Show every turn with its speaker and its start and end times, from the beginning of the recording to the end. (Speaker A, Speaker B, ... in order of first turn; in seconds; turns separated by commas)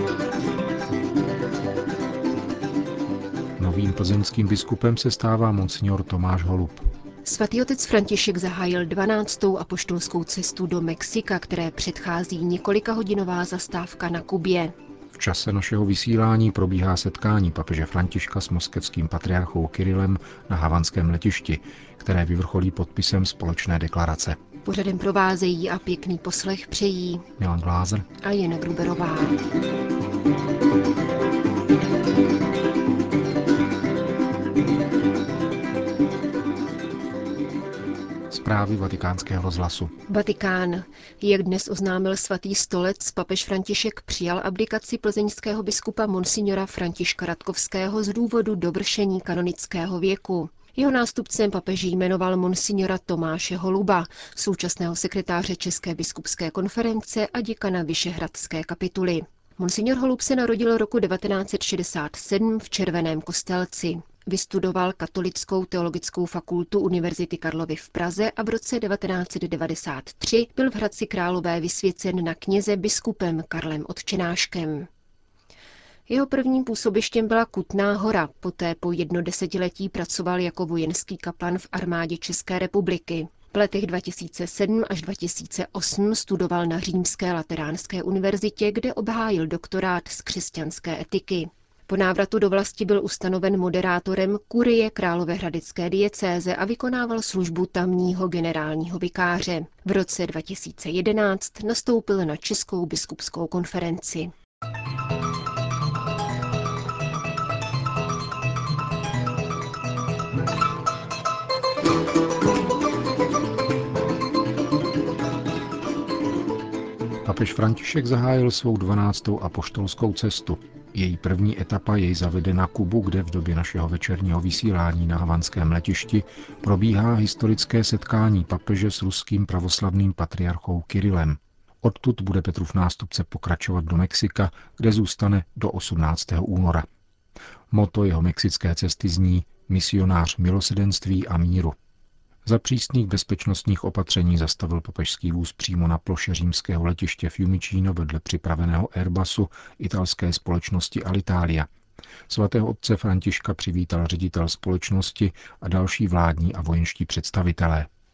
Speaker A: 3.6-6.8, Speaker B: 7.2-14.8, Speaker A: 15.1-24.4, Speaker B: 24.6-27.3, Speaker A: 27.4-28.1, Speaker B: 28.2-29.4, Speaker A: 38.3-39.9, Speaker B: 40.1-74.9, Speaker B: 76.1-104.3, Speaker A: 117.2-136.8, Speaker A: 137.7-141.7, Speaker A: 142.4-151.7, Speaker A: 152.3-157.9